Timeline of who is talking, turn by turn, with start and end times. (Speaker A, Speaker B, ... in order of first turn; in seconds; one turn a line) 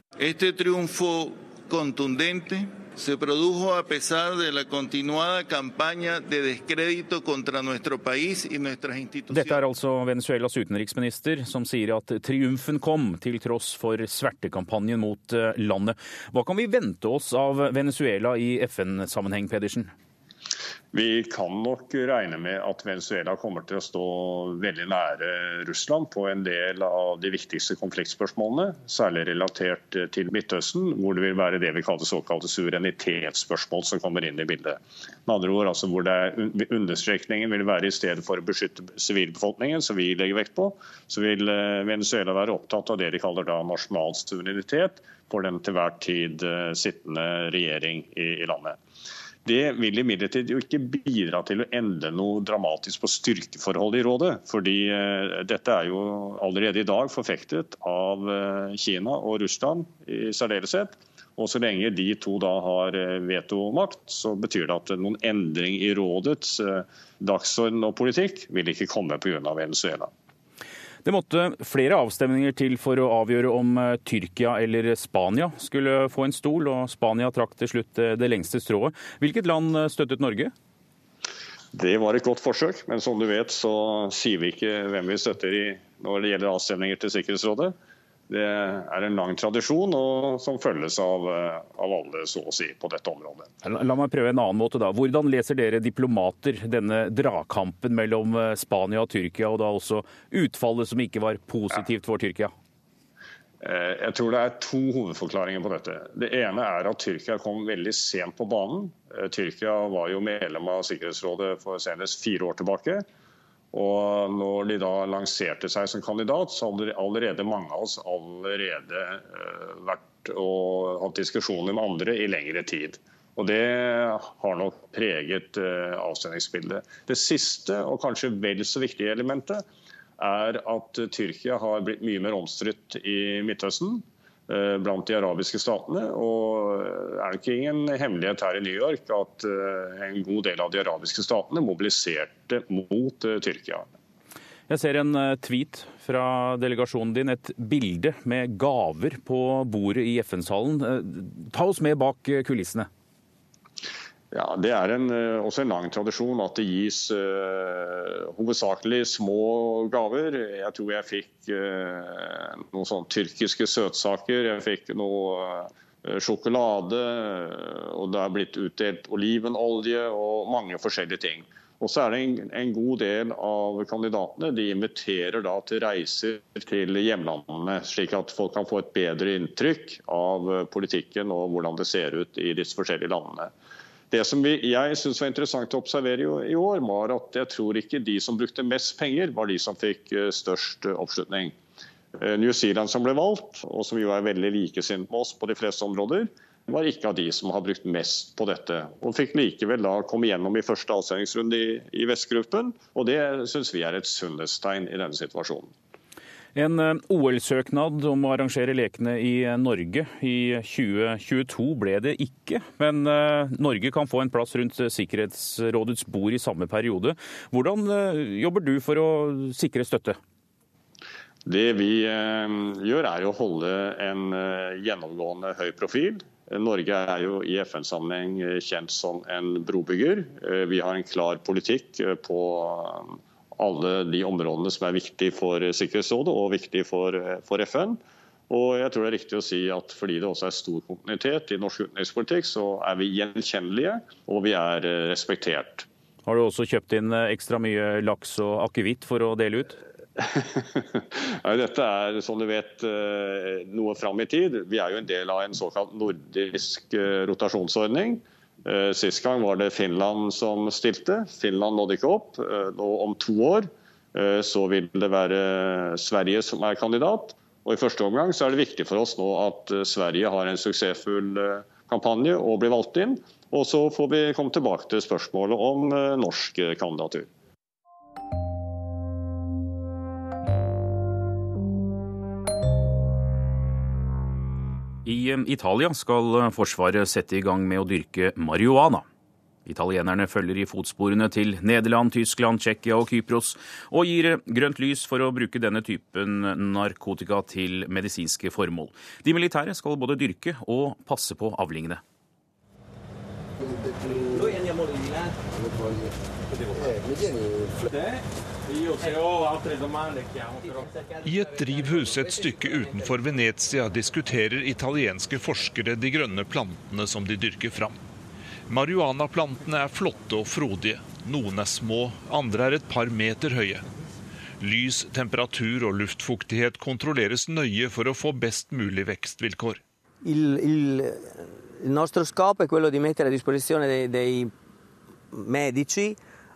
Speaker A: 0.2-9.6
Speaker B: 9.3-19.9
Speaker C: 20.9-48.8
Speaker C: 49.4-70.1
Speaker B: 71.0-80.5
Speaker C: 81.7-87.7
Speaker C: 88.3-93.5
Speaker B: 93.6-102.5
Speaker C: 103.6-113.0
Speaker C: 113.7-129.6
Speaker C: 130.2-143.9
Speaker B: 144.7-152.9
Speaker C: 154.3-183.5
Speaker C: 184.1-191.6
Speaker C: 192.2-205.7
Speaker B: 206.5-220.2
Speaker C: 221.4-245.9
Speaker B: 246.2-249.8
Speaker C: 250.2-277.3
Speaker B: 285.0-289.0
Speaker B: 289.6-302.0
Speaker D: 311.2-318.0
Speaker D: 318.7-323.8
Speaker D: 324.6-329.8
Speaker E: 330.2-334.5
Speaker E: 335.3-336.2